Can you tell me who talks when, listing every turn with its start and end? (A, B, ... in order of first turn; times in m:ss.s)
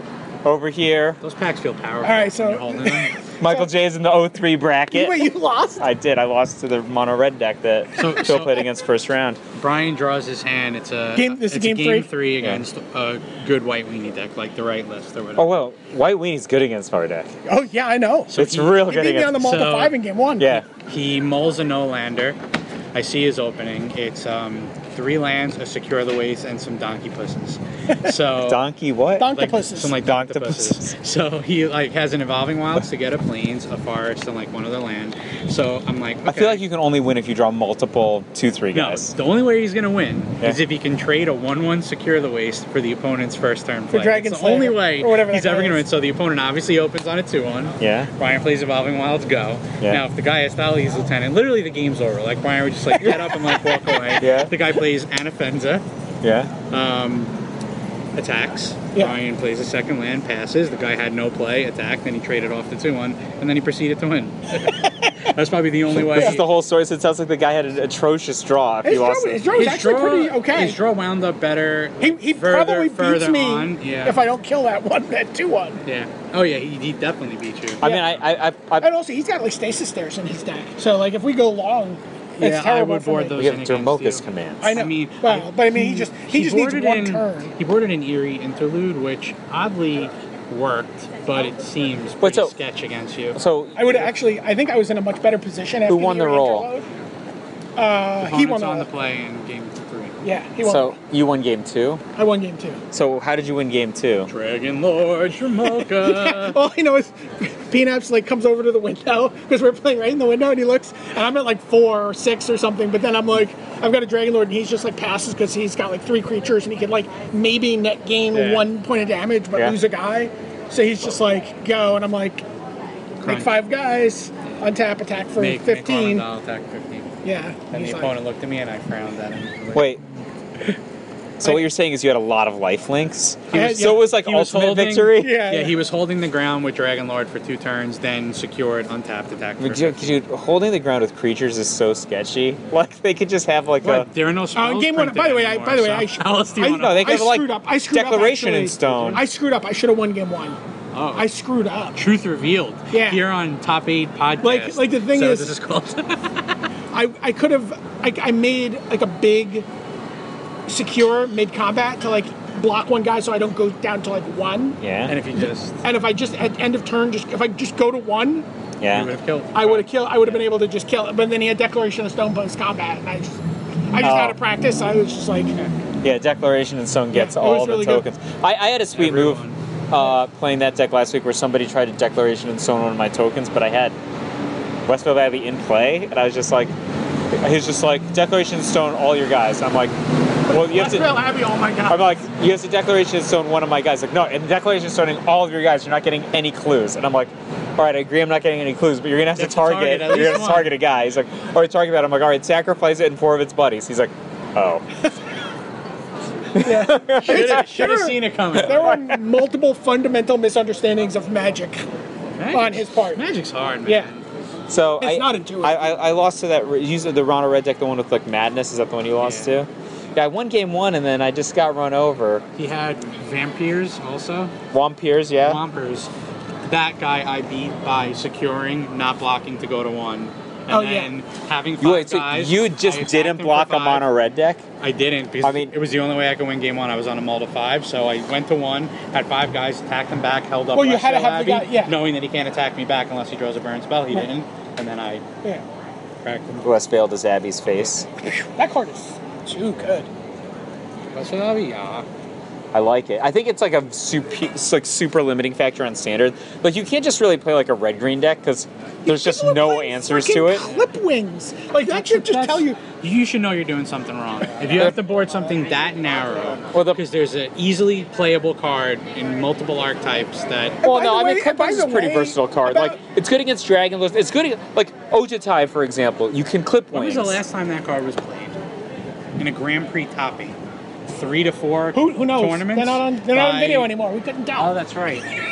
0:00.4-0:01.2 A
0:01.2-0:03.1 B
0:02.0-0:03.7 C
0:03.4-0:09.4 A
0:04.9-0:05.9 C
0:08.0-0:08.6 B
0:09.6-0:15.5 B
0:11.2-0:12.1 C
0:15.4-0:17.3 A
0:17.4-0:20.6 C
0:18.3-0:19.9 B
0:18.4-0:19.5 A
0:20.4-0:20.6 A
0:20.7-0:22.4 B
0:22.9-0:28.6 B
0:28.4-0:29.3 A
0:29.2-0:30.0 C
0:29.3-0:36.6 B
0:30.0-0:30.9 A
0:36.2-0:39.1 A
0:38.7-0:55.8 B
0:43.9-0:45.8 C
0:47.8-0:48.1 A
0:52.9-0:54.5 A
0:56.2-0:56.5 A
0:56.7-0:57.3 B
0:58.1-1:06.4 B
1:05.9-1:09.4 A
1:08.8-1:10.8 C
1:09.5-1:14.2 B
1:12.0-1:15.8 C
1:15.8-1:17.9 B
1:17.8-1:18.9 A
1:17.8-1:18.1 C
1:18.8-1:23.4 C
1:22.4-1:33.4 B
1:23.4-1:24.7 A
1:24.6-1:27.5 C
1:32.2-1:32.5 A
1:33.3-1:33.9 A
1:33.7-1:36.9 C
1:35.9-1:36.7 A
1:37.8-1:38.9 C
1:38.2-1:40.2 B
1:40.2-1:41.0 C
1:40.6-1:42.0 A
1:42.2-1:42.8 C
1:42.9-1:44.3 A
1:44.3-1:46.6 B
1:45.8-2:02.4 C
1:58.3-1:58.6 B
2:03.2-2:03.6 B
2:03.2-2:06.2 C
2:05.4-2:07.1 B
2:07.2-2:08.1 C
2:07.7-2:10.0 B
2:09.7-2:10.0 A
2:11.4-2:15.4 A
2:13.5-2:14.0 C
2:13.5-2:20.2 B
2:15.1-2:15.8 C
2:19.6-2:24.1 A
2:23.8-2:27.1 B
2:24.5-2:30.6 C
2:26.7-2:29.2 A
2:28.9-2:29.2 B
2:30.9-2:31.3 B
2:31.2-2:32.0 C
2:31.9-2:36.5 B
2:32.9-2:33.2 C
2:34.4-2:35.5 C
2:36.9-2:39.6 C
2:40.7-2:44.8 C
2:44.8-2:45.1 A
2:45.1-2:45.8 B
2:45.8-2:48.4 C
2:48.8-2:49.1 A
2:48.9-2:50.4 B
2:49.5-2:53.4 C
2:53.9-2:55.6 C
2:54.0-2:54.4 A
2:56.0-3:04.0 A
2:57.1-2:58.0 C
2:58.9-2:59.6 B
3:04.8-3:06.7 A
3:07.3-3:09.9 A
3:10.5-3:11.2 A
3:10.5-3:12.1 C
3:11.9-3:24.8 A
3:19.4-3:20.7 B
3:26.5-3:27.6 A
3:26.6-3:31.8 C
3:27.2-3:28.9 B
3:28.7-3:29.2 A
3:32.4-3:34.2 B
3:32.5-3:33.2 C
3:34.7-3:42.4 A
3:35.0-3:35.9 C
3:39.2-3:39.6 B
3:42.6-3:44.5 B
3:44.7-3:45.6 A
3:45.4-3:46.1 B
3:46.6-3:54.1 B
3:50.7-3:51.1 C
3:51.8-3:54.6 A
3:54.8-4:05.2 B
3:55.4-3:55.7 A
4:00.7-4:02.0 C
4:06.2-4:06.7 B
4:06.6-4:08.1 A
4:08.4-4:10.1 C
4:11.1-4:12.0 B
4:12.7-4:20.7 A
4:19.0-4:22.8 C
4:21.9-4:30.8 B
4:26.7-4:27.0 A
4:30.8-4:33.0 C
4:30.8-4:37.4 A
4:36.9-4:38.6 B
4:39.4-4:40.6 B
4:41.1-4:43.9 B
4:41.9-4:44.7 C
4:44.6-4:45.3 B